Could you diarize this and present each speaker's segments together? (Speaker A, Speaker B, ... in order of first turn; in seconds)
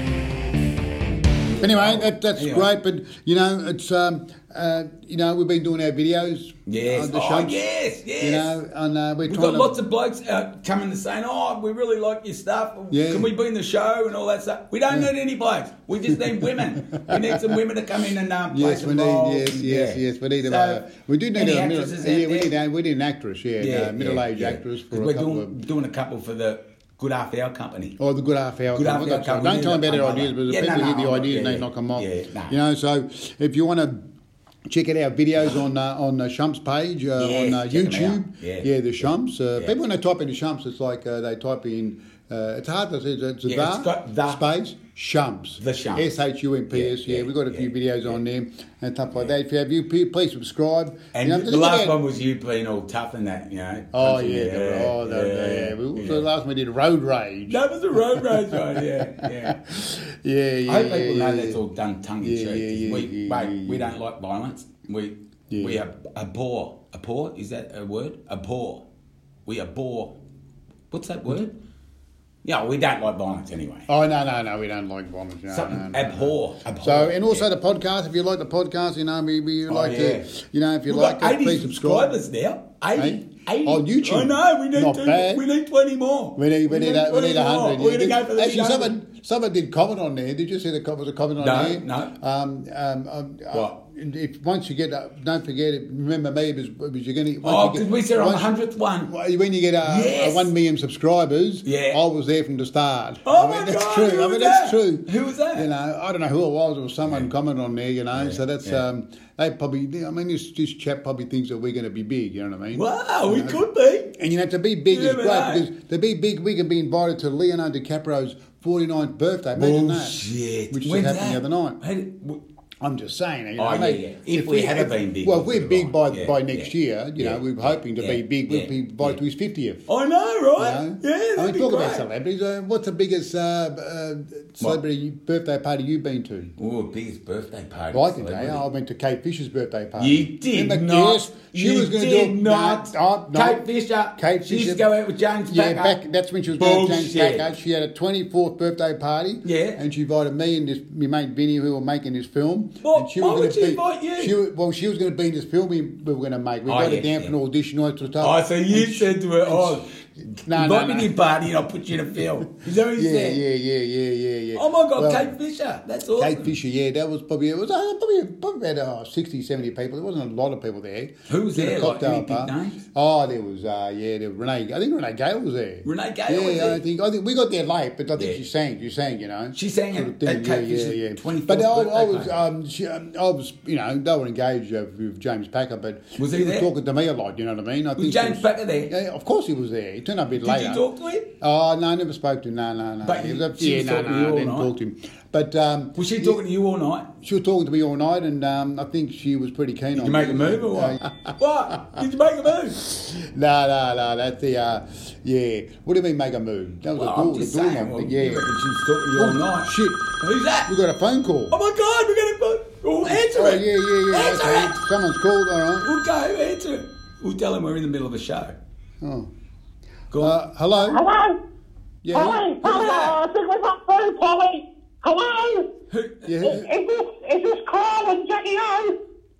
Speaker A: 1.4-2.7, 6.7-8.6, 9.2-20.8, 21.3-22.5, 23.6-28.0, 28.7-32.5, 37.2-38.7, 43.4-44.4, 45.6-46.1, 46.7-48.2, 51.1-56.3, 57.5-59.7, 60.6-68.8, 69.5-70.2, 70.9-71.5, 72.4-73.9, 75.5-77.5, 79.7-80.3, 80.9-88.9, 91.4-92.1, 97.4-99.1, 99.8-100.5, 101.6-102.0, 103.2-105.7, 108.1-108.8, 112.7-114.1, 114.9-115.7, 119.5-122.4, 123.6-129.2, 129.9-132.0, 136.6-138.6, 140.0-146.0, 146.5-147.5, 149.4-149.8, 152.8-154.3, 156.7-157.3, 158.2-163.4, 164.5-166.5, 171.3-172.8, 175.8-176.8, 179.5-182.4, 186.2-186.7, 188.0-188.9, 190.4-191.3, 193.0-194.7, 195.9-197.1, 199.9-202.8, 206.9-210.7, 211.5-214.8, 215.8-218.6, 220.1-220.3, 222.6-223.2, 225.9-226.4
Speaker B: 1.6-7.6, 8.2-9.8, 12.9-13.3, 16.1-17.6, 18.5-25.5, 28.0-34.0, 34.7-52.0, 53.9-61.6, 62.2-63.9, 65.5-65.8, 73.9-82.2, 83.0-85.4, 86.4-98.5, 99.1-113.6, 114.1-120.2, 120.7-121.8, 122.8-129.8, 130.6-136.5, 137.9-143.6, 144.2-144.8, 145.5-159.8, 160.4-161.1, 162.7-165.3, 166.2-190.8, 191.4-196.4, 197.2-202.0, 202.8-208.5, 209.1-210.1, 210.7-211.6, 213.0-215.9, 219.0-219.3, 220.2-221.0, 222.0-222.5, 226.2-226.7
Speaker C: 220.8-221.4, 222.1-225.7, 226.4-228.9